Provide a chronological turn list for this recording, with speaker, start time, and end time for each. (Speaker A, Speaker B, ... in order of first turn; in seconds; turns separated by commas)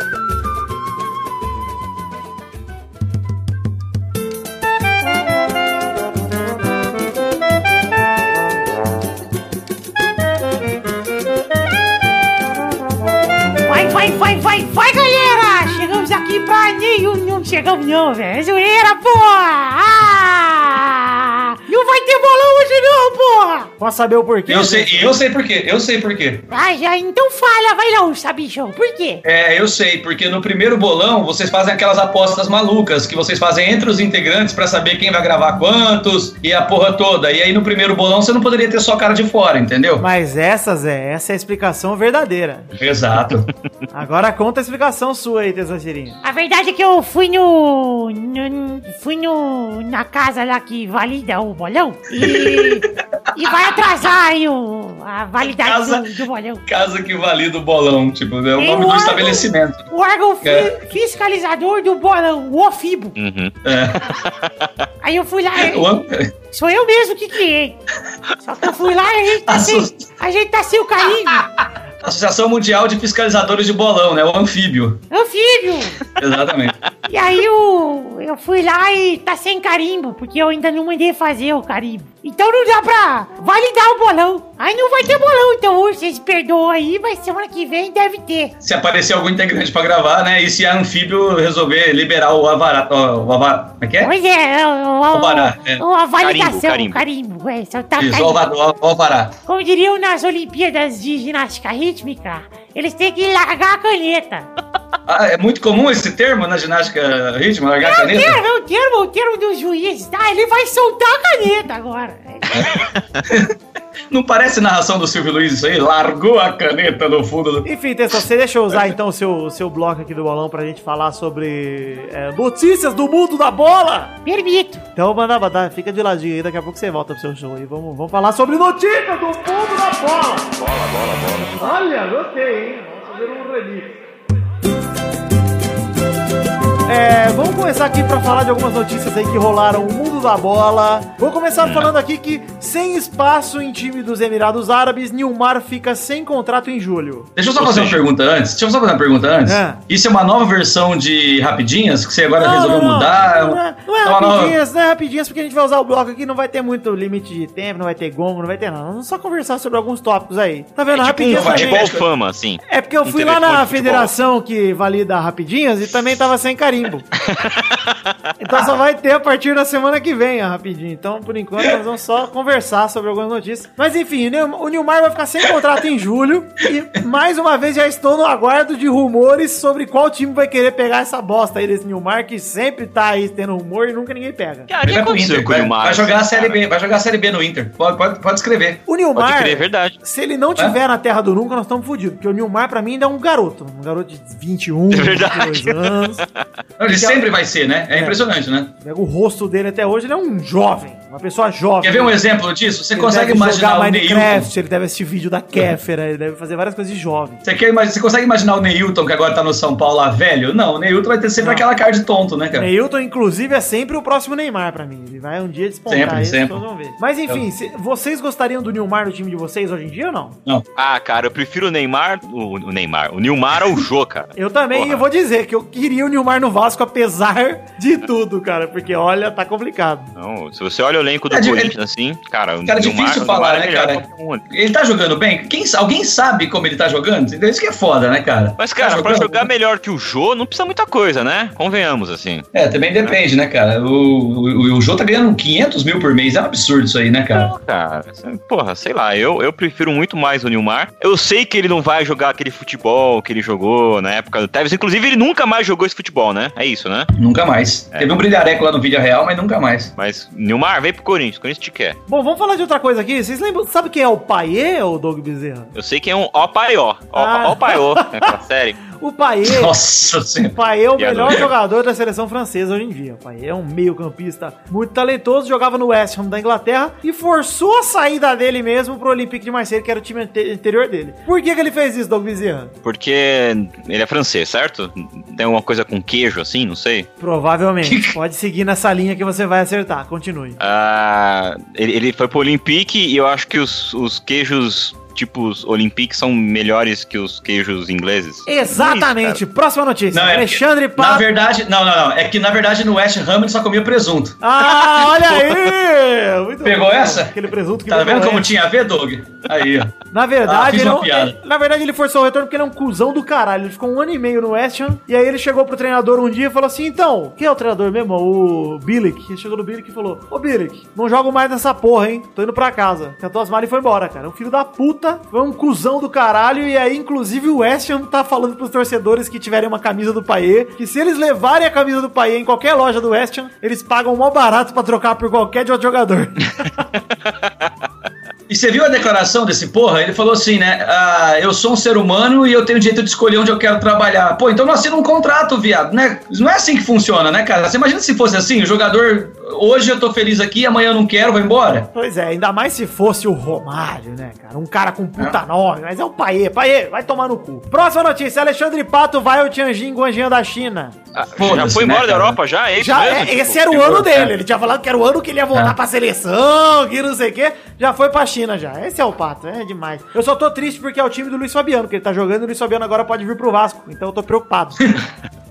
Speaker A: 13.6-23.7, Speaker B: 23.8-25.2, Speaker C: 24.5-26.5, Speaker A: 26.5-29.2, Speaker C: 29.2-40.1, Speaker B: 40.0-42.7, Speaker C: 42.8-43.5, Speaker B: 43.9-46.2, Speaker A: 46.2-56.6, Speaker C: 52.1-52.9, Speaker C: 55.5-56.0, Speaker C: 56.7-59.9, Speaker A: 58.6-63.2, Speaker C: 60.4-60.7, Speaker D: 63.2-64.9, Speaker C: 63.6-64.0, Speaker A: 65.0-65.9, Speaker C: 65.6-66.3, Speaker A: 66.5-67.8, Speaker A: 68.4-71.5, Speaker C: 69.5-70.1, Speaker C: 72.0-75.0, Speaker A: 75.1-76.1, Speaker C: 76.1-76.9, Speaker A: 77.1-88.5, Speaker C: 88.6-94.1, Speaker A: 94.0-98.5, Speaker C: 95.1-95.8, Speaker D: 96.2-97.0, Speaker C: 98.0-99.3, Speaker A: 99.5-104.5, Speaker C: 105.1-108.4, Speaker A: 107.8-112.6, Speaker C: 112.5-113.5, Speaker D: 112.7-113.2, Speaker C: 114.1-117.7, Speaker B: 117.7-124.2, Speaker A: 124.3-124.8, Speaker B: 125.0-130.5, Speaker D: 130.6-131.6, Speaker B: 131.6-134.0, Speaker B: 136.9-147.3, Speaker D: 141.6-141.9, Speaker C: 147.4-154.6, Speaker D: 147.6-148.0, Speaker B: 149.5-149.8, Speaker B: 152.4-161.9, Speaker D: 160.9-164.1, Speaker C: 161.3-162.1, Speaker B: 162.7-167.1, Speaker D: 167.2-168.1, Speaker B: 168.4-184.7, Speaker D: 184.7-186.6, Speaker C: 184.9-188.8, Speaker B: 188.9-196.2, Speaker D: 189.2-190.0, Speaker D: 194.9-196.5, Speaker C: 196.8-198.7, Speaker B: 196.9-197.3, Speaker B: 198.8-202.2, Speaker C: 201.8-204.5, Speaker B: 202.9-207.4, Speaker C: 207.4-212.7, Speaker B: 211.4-211.7, Speaker B: 212.5-220.4, Speaker C: 215.9-216.6, Speaker D: 220.8-225.0, Speaker B: 224.3-230.1, Speaker D: 230.2-234.4, Speaker C: 231.3-231.7, Speaker C: 232.7-239.5, Speaker D: 238.6-242.4, Speaker C: 242.5-247.5, Speaker D: 247.3-257.1, Speaker C: 257.2-259.9, Speaker D: 260.0-262.0, Speaker B: 262.1-265.7, Speaker D: 265.8-268.8, Speaker B: 267.1-268.3, Speaker B: 269.0-269.7, Speaker C: 269.4-270.5, Speaker B: 270.4-282.7, Speaker D: 271.0-271.5, Speaker D: 282.8-287.1, Speaker B: 287.2-290.6, Speaker C: 287.8-288.2, Speaker D: 290.6-299.4, Speaker B: 298.5-301.2, Speaker C: 300.1-304.4, Speaker B: 304.4-308.5, Speaker C: 306.6-307.3, Speaker C: 307.9-309.9, Speaker B: 310.1-336.9, Speaker C: 310.4-311.4, Speaker C: 338.5-351.9, Speaker B: 351.9-360.9, Speaker D: 361.2-364.3, Speaker C: 361.2-362.4, Speaker B: 362.8-374.8